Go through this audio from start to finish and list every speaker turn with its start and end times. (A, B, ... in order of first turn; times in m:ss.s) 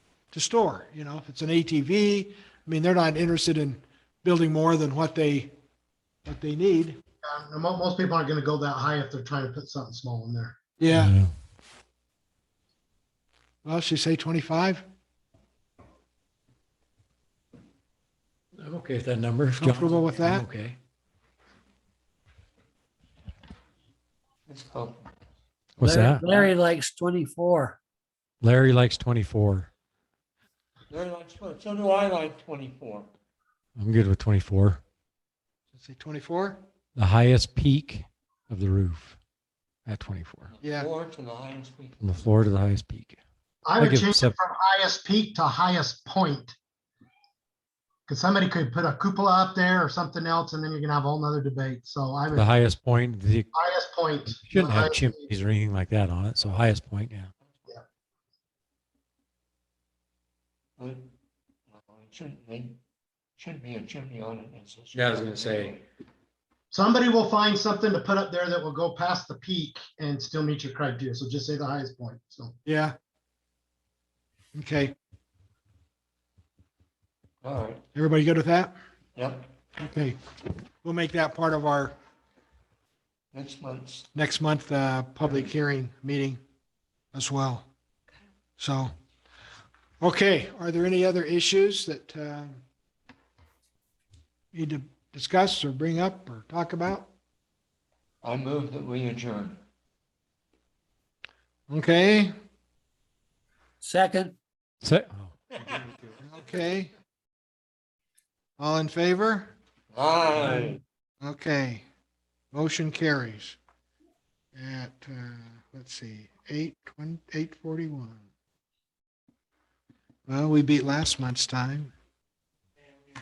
0:00.3-0:05.5 A
0:06.2-0:07.0 A
0:07.2-0:10.6 B
0:10.8-0:11.1 A
0:10.9-0:11.3 C
0:13.6-0:14.8 A
0:18.6-0:20.8 C
0:19.6-0:20.5 A
0:24.5-0:25.1 D
0:25.8-0:26.3 C
0:25.8-0:27.8 E
0:28.4-0:29.7 C
0:30.9-0:33.1 D
0:33.8-0:34.8 C
0:35.7-0:36.6 A
0:37.0-0:39.2 C
0:39.8-0:40.5 C
0:40.6-0:42.0 D
0:40.6-0:40.9 A
0:42.0-0:43.2 C
0:43.6-0:46.5 B
0:43.8-0:44.3 C
0:48.1-0:52.5 B
0:52.3-0:53.6 C
0:53.5-0:55.3 B
0:54.3-0:57.3 C
1:00.8-1:01.1 D
1:01.7-1:02.8 D
1:03.4-1:05.8 D
1:04.9-1:05.7 C
1:06.7-1:12.5 B
1:12.6-1:12.9 A
1:14.5-1:14.9 A
1:17.4-1:17.8 D
1:17.9-1:18.7 A
1:19.2-1:19.5 D
1:19.8-1:20.2 A
1:20.8-1:22.0 A
1:23.3-1:24.1 D
1:24.1-1:26.4 A
1:27.1-1:27.7 A
1:28.6-1:28.9 A
1:30.0-1:32.6 A
1:34.5-1:37.1 A
1:38.2-1:39.6 D
1:41.7-1:42.3 A
1:43.8-1:44.3 E
1:44.8-1:45.3 C
1:46.2-1:46.9 A
1:48.6-1:49.5 A
1:49.9-1:50.8 D
1:51.2-1:51.8 A
1:52.5-1:53.6 A
1:54.5-1:58.2 A
2:00.3-2:01.9 A